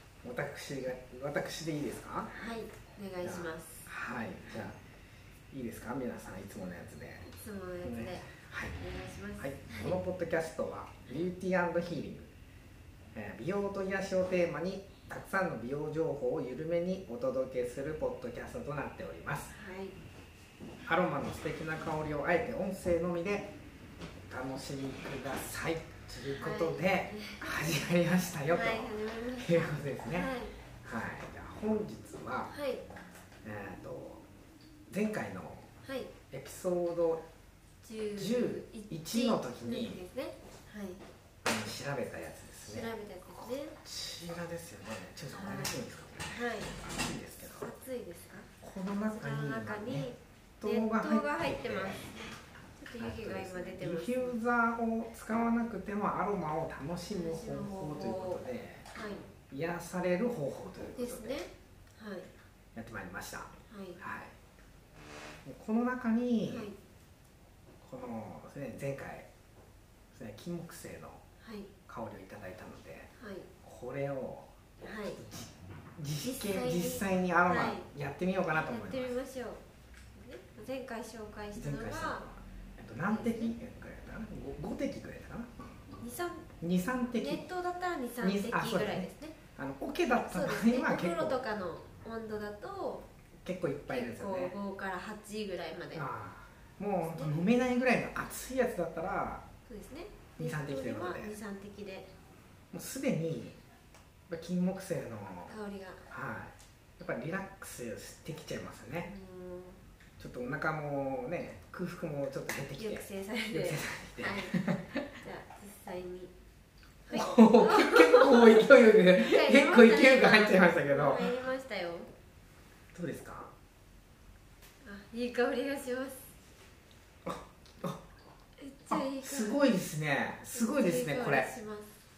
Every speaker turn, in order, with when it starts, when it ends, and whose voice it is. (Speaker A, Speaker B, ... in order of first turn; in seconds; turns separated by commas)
Speaker A: 0.2-2.3, Speaker B: 2.3-3.9, Speaker A: 3.2-4.8, Speaker A: 5.5-7.3, Speaker B: 7.3-10.0, Speaker A: 7.8-8.8, Speaker A: 9.4-12.3, Speaker A: 13.2-19.5, Speaker B: 19.5-20.0, Speaker A: 20.9-23.5, Speaker A: 24.3-32.5, Speaker B: 26.3-27.7, Speaker B: 28.5-30.6, Speaker B: 32.5-32.8, Speaker A: 33.4-34.2, Speaker A: 34.9-35.7, Speaker B: 35.8-36.1, Speaker A: 36.3-37.2, Speaker B: 37.8-41.0, Speaker A: 38.2-40.0, Speaker A: 41.5-47.7, Speaker B: 42.7-43.8, Speaker B: 45.3-46.8, Speaker B: 47.6-48.5, Speaker A: 48.6-50.1, Speaker B: 49.0-54.4, Speaker A: 50.6-52.1, Speaker A: 53.0-58.9, Speaker B: 57.1-59.3, Speaker A: 59.5-61.4, Speaker B: 61.0-62.3, Speaker A: 62.8-64.3, Speaker B: 63.7-64.0, Speaker A: 65.5-66.7, Speaker B: 66.5-66.8, Speaker A: 67.8-69.3, Speaker A: 70.1-71.2, Speaker B: 71.4-71.8, Speaker A: 71.8-73.1, Speaker B: 73.2-73.5, Speaker A: 73.6-74.5, Speaker B: 74.8-75.2, Speaker A: 75.1-79.2, Speaker B: 76.2-77.9, Speaker B: 78.5-79.6, Speaker B: 80.2-82.2, Speaker A: 81.5-85.5, Speaker B: 83.1-83.5, Speaker B: 86.0-86.5, Speaker A: 86.6-87.5, Speaker B: 87.2-89.4, Speaker A: 88.2-91.4, Speaker B: 90.3-93.1, Speaker A: 93.4-94.6, Speaker B: 93.9-96.1, Speaker A: 95.9-99.5, Speaker B: 97.0-97.4, Speaker B: 99.7-102.1, Speaker A: 100.4-101.4, Speaker A: 102.7-103.6, Speaker A: 104.3-109.1, Speaker B: 105.5-106.1, Speaker B: 109.0-109.8, Speaker A: 110.2-115.1, Speaker B: 112.8-116.3, Speaker B: 117.1-122.1, Speaker A: 117.1-121.4, Speaker A: 122.9-123.5, Speaker B: 124.8-126.3, Speaker A: 127.2-128.0, Speaker B: 128.6-129.7, Speaker A: 128.9-131.5, Speaker B: 130.5-131.9